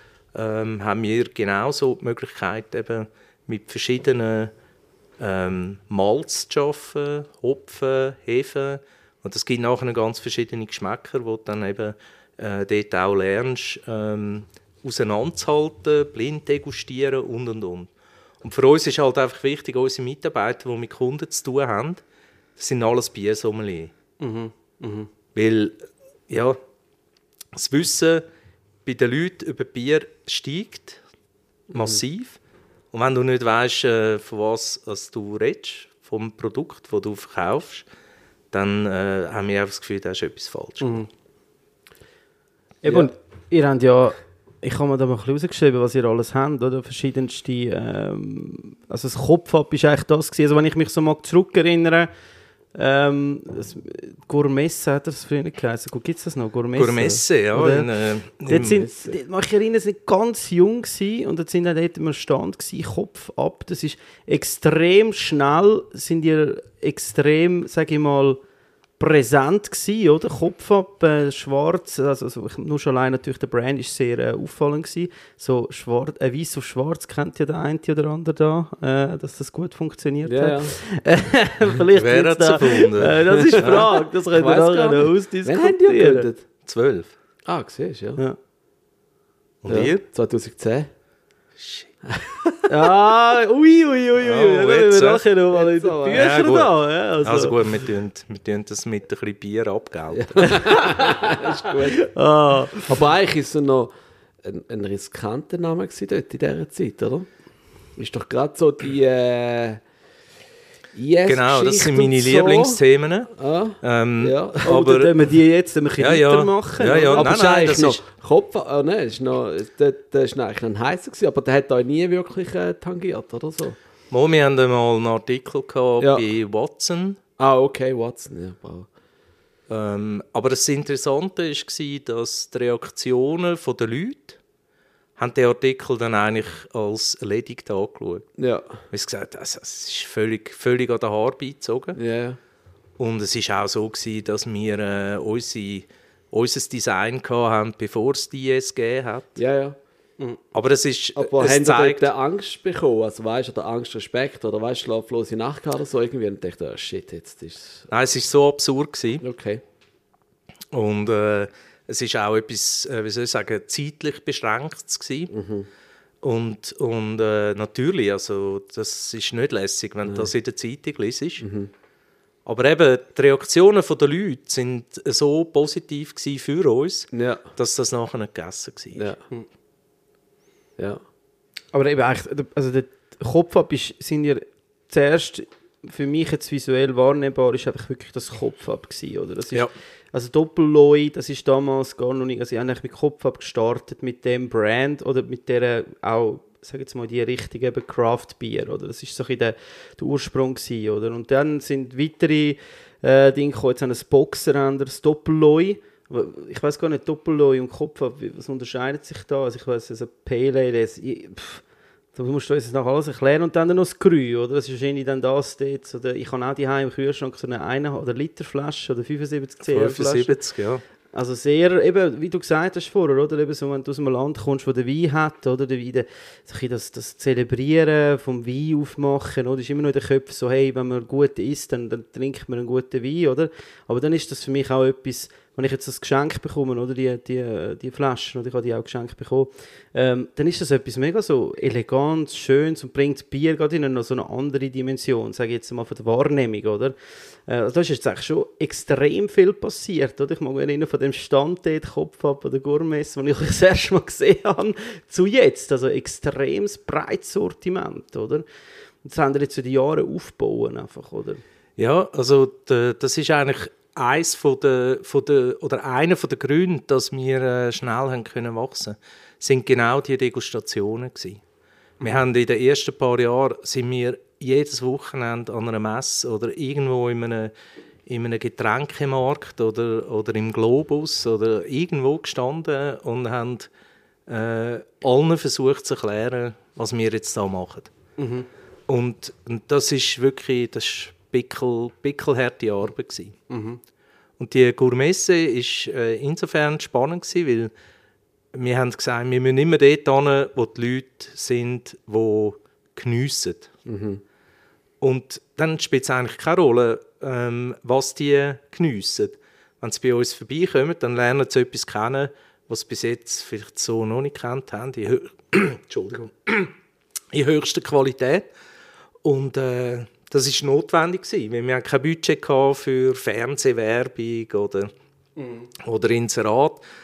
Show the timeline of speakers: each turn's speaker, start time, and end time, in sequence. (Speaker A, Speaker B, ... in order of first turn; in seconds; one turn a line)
Speaker A: 0.3-4.5
Speaker A: 5.2-17.9
Speaker A: 18.4-22.0
Speaker A: 22.6-23.9
Speaker B: 24.2-25.1
Speaker A: 25.4-26.6
Speaker A: 27.5-28.3
Speaker A: 28.9-31.0
Speaker A: 31.7-32.4
Speaker C: 31.7-32.0
Speaker A: 32.9-37.9
Speaker A: 38.5-41.0
Speaker B: 40.8-41.1
Speaker B: 42.8-52.1
Speaker C: 42.9-43.1
Speaker B: 52.7-57.9
Speaker A: 56.8-58.8
Speaker B: 58.5-68.4
Speaker C: 58.6-59.2
Speaker B: 69.0-86.3
Speaker C: 80.2-80.7
Speaker A: 82.0-83.9
Speaker C: 83.5-86.4
Speaker A: 86.7-87.1
Speaker C: 87.5-88.2
Speaker A: 89.6-90.0
Speaker C: 89.7-90.9
Speaker A: 91.6-91.9
Speaker C: 92.1-92.9
Speaker B: 92.7-97.8
Speaker A: 94.2-95.2
Speaker C: 95.5-96.2
Speaker A: 96.1-100.5
Speaker C: 100.1-102.1
Speaker B: 100.4-102.9
Speaker C: 102.9-103.9
Speaker C: 104.4-107.3
Speaker C: 108.0-109.8
Speaker C: 110.9-112.8
Speaker A: 111.3-113.3
Speaker C: 113.3-114.8
Speaker A: 113.8-115.1
Speaker B: 114.7-117.3
Speaker A: 116.0-118.0
Speaker C: 116.8-123.8
Speaker A: 124.1-127.2
Speaker C: 126.0-126.2
Speaker C: 127.4-128.9
Speaker A: 129.7-134.4
Speaker A: 135.2-138.3
Speaker C: 138.4-138.7
Speaker A: 138.9-142.0
Speaker C: 141.9-142.4
Speaker A: 143.0-149.4
Speaker C: 149.4-149.8
Speaker A: 150.5-152.1
Speaker C: 151.2-157.9
Speaker A: 157.9-159.2
Speaker C: 159.2-159.6
Speaker A: 160.7-165.3
Speaker C: 165.3-165.7
Speaker A: 166.2-171.5
Speaker C: 170.1-170.3
Speaker C: 171.4-171.7
Speaker A: 172.4-179.1
Speaker C: 177.1-177.4
Speaker B: 181.7-211.6
Speaker B: 212.2-220.4
Speaker A: 219.7-220.8
Speaker B: 221.1-258.4
Speaker B: 259.0-261.4
Speaker A: 261.8-271.4
Speaker A: 272.0-277.5
Speaker A: 278.1-283.7
Speaker A: 284.3-287.9
Speaker B: 288.2-288.5
Speaker A: 288.9-293.3
Speaker B: 293.5-293.8
Speaker A: 294.4-297.7
Speaker A: 298.5-303.7
Speaker C: 303.9-304.2
Speaker A: 305.0-316.7
Speaker A: 317.3-318.5
Speaker A: 319.2-324.9
Speaker B: 325.4-325.7
Speaker A: 325.8-326.8